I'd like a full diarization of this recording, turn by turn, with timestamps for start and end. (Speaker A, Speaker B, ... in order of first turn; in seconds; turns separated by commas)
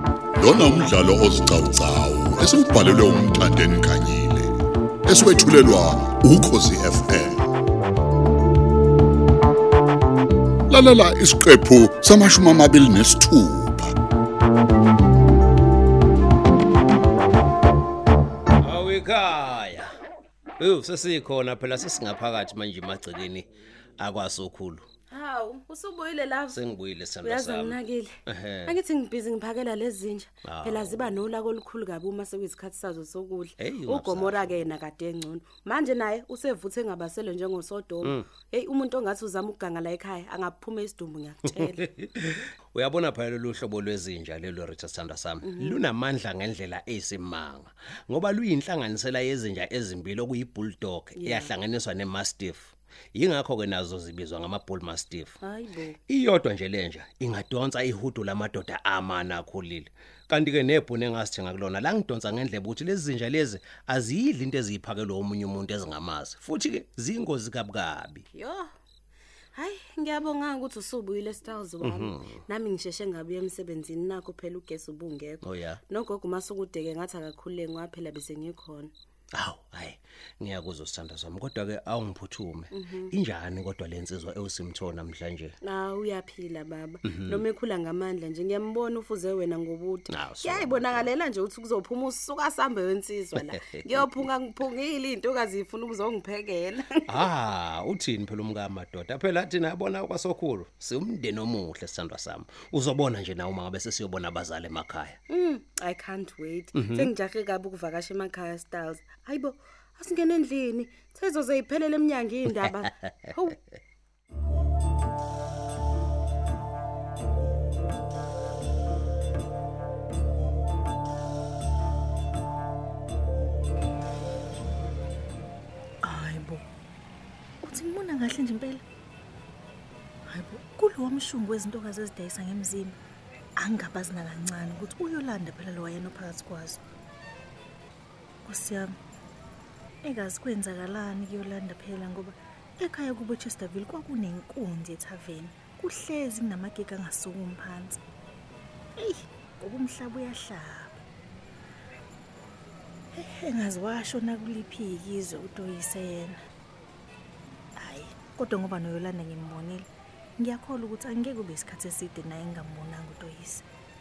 Speaker A: 0.3-4.5, Speaker A: 5.0-7.4, Speaker A: 10.7-13.9, Speaker B: 18.6-19.9, Speaker B: 20.6-24.9, Speaker C: 25.1-26.6, Speaker B: 26.5-28.8, Speaker C: 27.2-41.8, Speaker B: 30.4-31.2, Speaker B: 33.6-34.7, Speaker B: 41.6-55.4, Speaker C: 45.4-45.8, Speaker C: 51.2-51.5, Speaker C: 55.4-56.0, Speaker B: 56.1-68.2, Speaker C: 68.3-68.7, Speaker C: 69.5-78.9, Speaker B: 71.8-72.4, Speaker B: 75.4-75.8, Speaker B: 79.3-85.5, Speaker C: 82.7-83.1, Speaker C: 85.6-97.3, Speaker B: 87.0-87.4, Speaker B: 90.1-91.1, Speaker B: 93.3-94.3, Speaker B: 97.1-105.2, Speaker C: 105.3-113.6, Speaker B: 106.7-107.1, Speaker D: 126.0-126.6, Speaker D: 127.6-128.8, Speaker D: 130.3-132.9, Speaker D: 133.6-136.8, Speaker D: 138.5-138.9, Speaker D: 140.1-147.9, Speaker D: 149.0-150.9, Speaker D: 153.2-156.3, Speaker D: 157.8-159.8, Speaker D: 160.4-163.6